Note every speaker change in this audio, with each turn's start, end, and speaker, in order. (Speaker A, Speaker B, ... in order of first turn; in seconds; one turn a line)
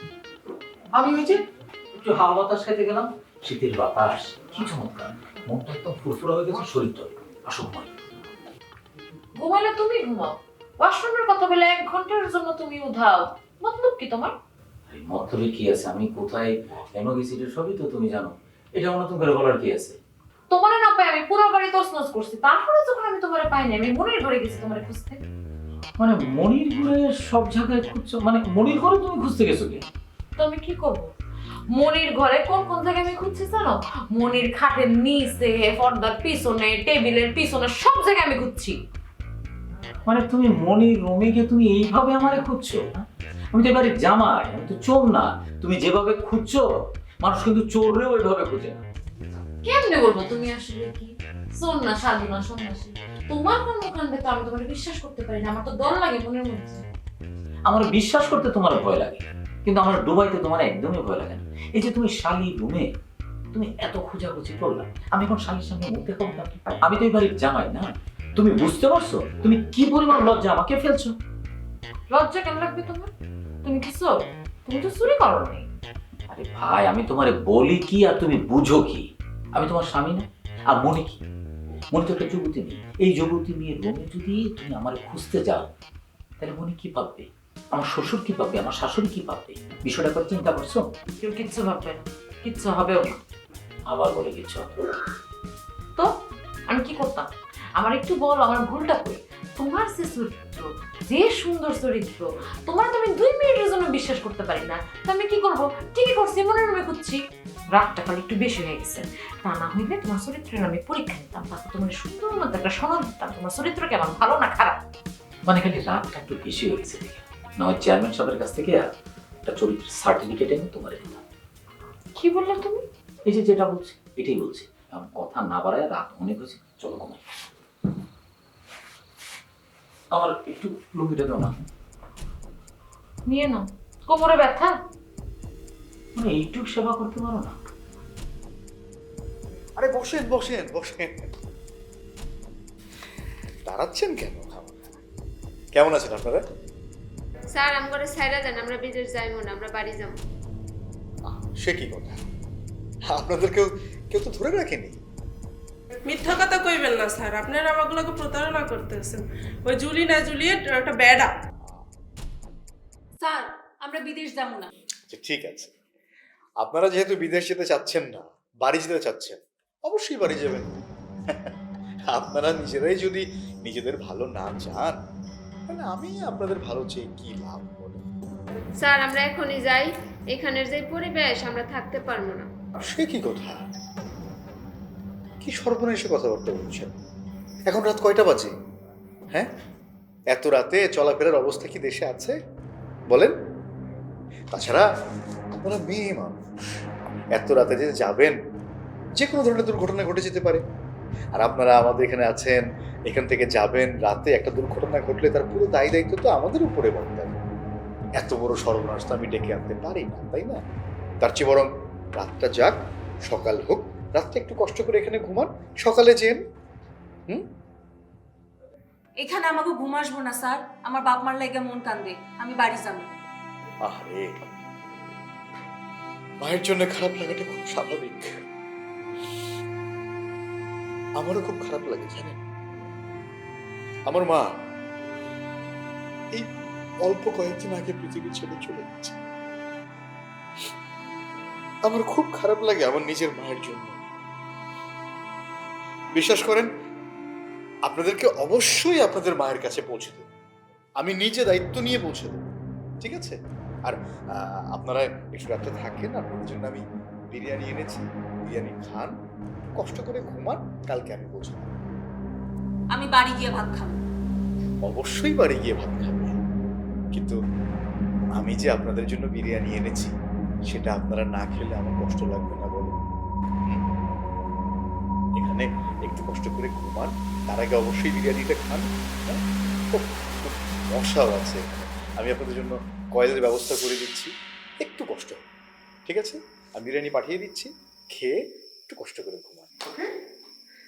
Speaker A: 0.9-1.4
Speaker A: 2.0-7.9
Speaker B: 9.4-14.3
Speaker A: 14.9-20.0
Speaker B: 20.5-25.2
Speaker A: 26.0-29.9
Speaker B: 30.4-31.1
Speaker B: 31.7-38.8
Speaker A: 40.0-46.6
Speaker A: 47.2-48.8
Speaker B: 49.6-56.8
Speaker A: 57.7-62.9
Speaker A: 63.5-71.1
Speaker B: 72.1-73.1
Speaker B: 73.6-75.7
Speaker A: 76.3-81.2
Speaker A: 81.9-85.7
Speaker A: 86.4-90.8
Speaker B: 91.2-93.2
Speaker A: 93.9-94.9
Speaker B: 96.7-97.3
Speaker B: 97.8-107.2
Speaker B: 107.7-114.8
Speaker A: 115.5-118.9
Speaker A: 119.4-121.2
Speaker B: 122.2-122.8
Speaker A: 123.3-127.2
Speaker A: 130.1-131.7
Speaker B: 133.3-134.8
Speaker A: 136.2-137.6
Speaker C: 139.8-141.2
Speaker C: 143.7-144.9
Speaker C: 145.8-146.4
Speaker D: 147.5-150.2
Speaker C: 151.3-152.2
Speaker C: 153.1-155.0
Speaker E: 156.1-161.3
Speaker F: 163.2-164.7
Speaker C: 165.1-165.7
Speaker C: 166.6-170.7
Speaker C: 172.1-175.0
Speaker C: 175.7-178.0
Speaker D: 178.8-182.5
Speaker C: 182.8-183.6
Speaker C: 185.4-186.9
Speaker C: 187.7-188.5
Speaker C: 190.3-192.3
Speaker C: 194.5-194.8
Speaker C: 195.5-196.4
Speaker C: 197.4-198.4
Speaker C: 199.2-200.6
Speaker C: 201.4-207.4
Speaker C: 208.2-210.6
Speaker C: 211.2-216.4
Speaker F: 219.2-223.1
Speaker C: 223.9-224.4
Speaker C: 226.4-228.3
Speaker C: 231.2-232.4
Speaker C: 234.1-234.4
Speaker C: 237.0-239.2
Speaker C: 241.9-244.0
Speaker C: 246.2-246.7
Speaker C: 247.9-250.3
Speaker C: 251.0-252.5
Speaker C: 253.0-259.1
Speaker C: 259.8-261.7
Speaker F: 262.9-264.0
Speaker C: 264.9-266.4
Speaker C: 268.4-270.1
Speaker C: 270.7-273.0
Speaker C: 275.4-279.4
Speaker C: 279.9-284.3
Speaker C: 284.8-285.4
Speaker C: 286.1-290.1